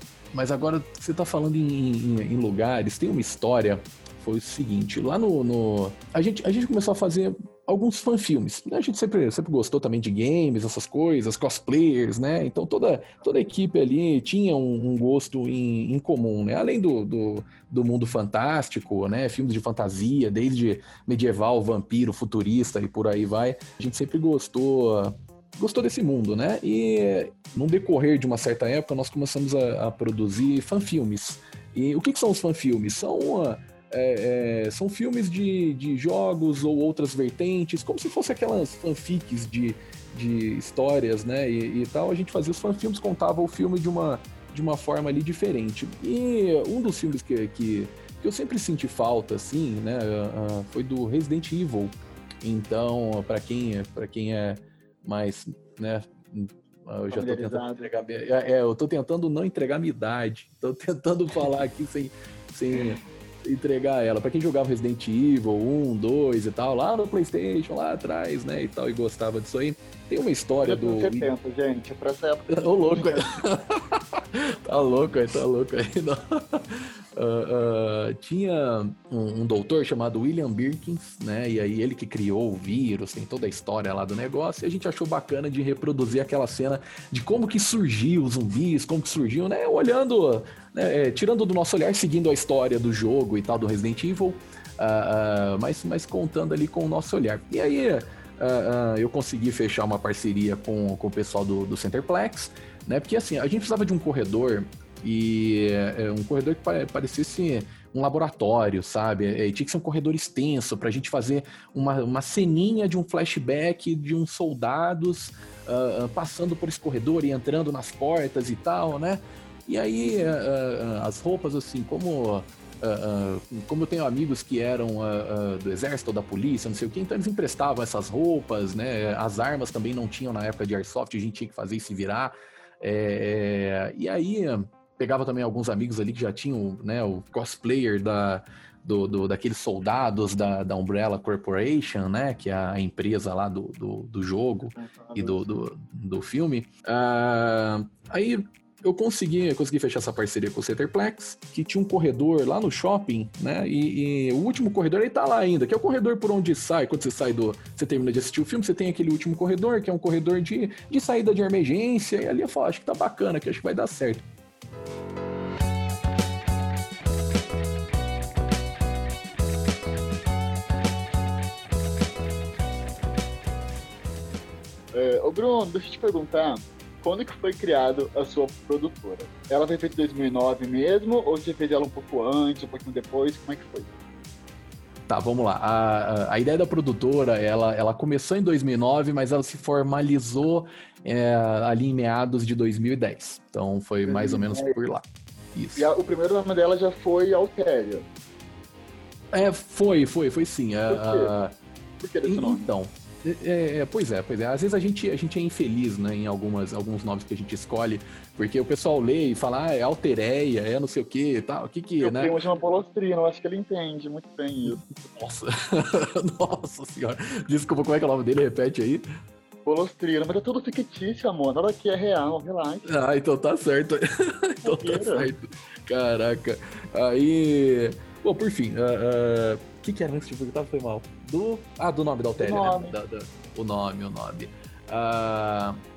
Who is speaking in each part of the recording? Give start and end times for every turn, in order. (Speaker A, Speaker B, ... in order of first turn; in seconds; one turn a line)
Speaker A: 0.3-71.3
Speaker B: 57.1-57.8
Speaker B: 70.6-73.4
Speaker A: 72.5-164.2
Speaker B: 120.0-120.3
Speaker B: 144.7-145.4
Speaker B: 174.9-183.9
Speaker A: 185.1-195.0
Speaker B: 194.1-194.8
Speaker A: 195.5-195.9
Speaker B: 195.8-198.0
Speaker A: 199.3-201.6
Speaker B: 200.9-201.3
Speaker B: 202.0-202.7
Speaker A: 202.2-212.3
Speaker B: 212.0-214.8
Speaker A: 214.8-219.0
Speaker B: 219.7-222.9
Speaker A: 222.9-235.8
Speaker B: 224.6-225.3
Speaker B: 232.4-232.9